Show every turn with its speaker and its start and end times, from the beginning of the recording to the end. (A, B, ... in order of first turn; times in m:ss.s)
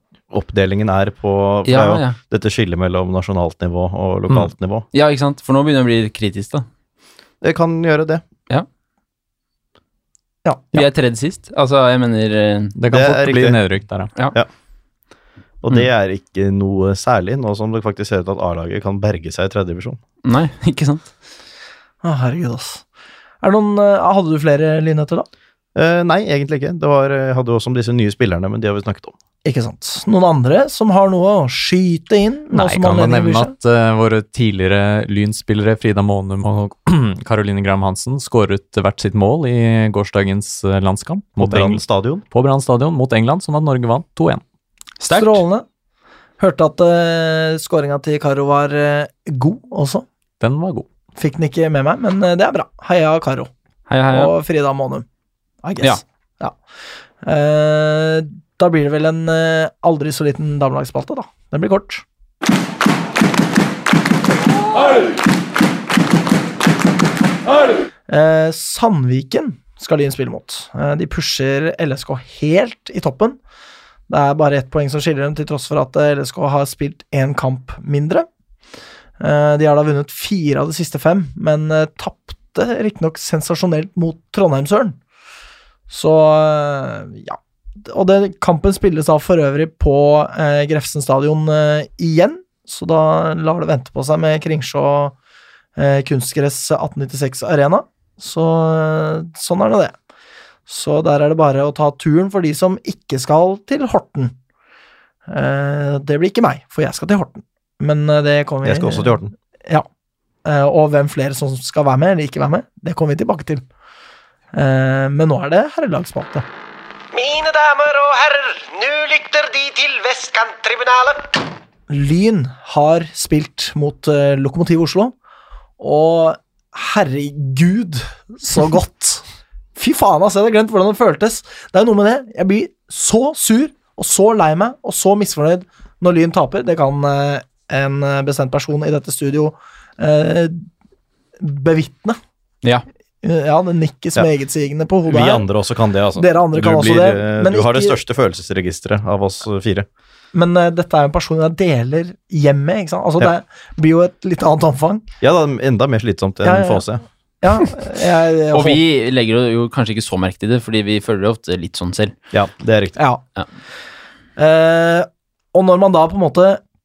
0:00.3-0:04.8 A
0:01.6-0:02.2 B
0:04.9-0:06.6 B
0:07.4-0:08.2 A
0:10.4-0:10.7 C
0:10.7-0:12.7 B
0:12.7-0:14.1 D
0:12.9-0:13.6 A
0:15.6-0:20.0 A
0:20.2-0:21.1 B
0:22.0-0:22.8 C
0:23.4-0:25.3 C
0:25.7-0:29.1 A
0:29.4-0:33.5 C
0:32.5-0:44.4 D
0:41.4-0:42.2 A
0:45.0-0:45.4 B
0:45.1-0:45.6 C
0:46.4-0:50.0 C
0:50.4-0:50.8 D
0:51.2-0:53.5 C
0:53.9-0:54.3 B
0:54.1-0:55.0 C
0:55.6-0:56.6 C
0:57.2-1:02.0 C
1:08.1-1:13.4 C
1:14.1-1:18.3 C
1:19.2-1:25.0 C
1:25.9-1:35.1 C
1:35.8-1:39.9 C
1:40.7-1:44.3 C
1:45.3-1:49.8 C
1:48.6-1:49.3 A
1:50.4-1:53.6 C
1:54.5-1:56.4 C
1:57.1-2:01.3 E
2:01.9-2:05.1 C
2:05.8-2:09.2 C
2:09.8-2:20.7 C
2:21.4-2:22.2 C
2:23.2-2:25.4 C
2:25.1-2:29.9 A
2:26.2-2:28.0 C
2:30.3-2:35.0 C
2:35.2-2:37.0 A
2:36.4-2:36.9 C
2:37.4-2:38.8 C
2:38.5-2:42.1 B
2:42.3-2:43.0 A
2:43.0-2:43.2 C
2:44.4-2:46.6 C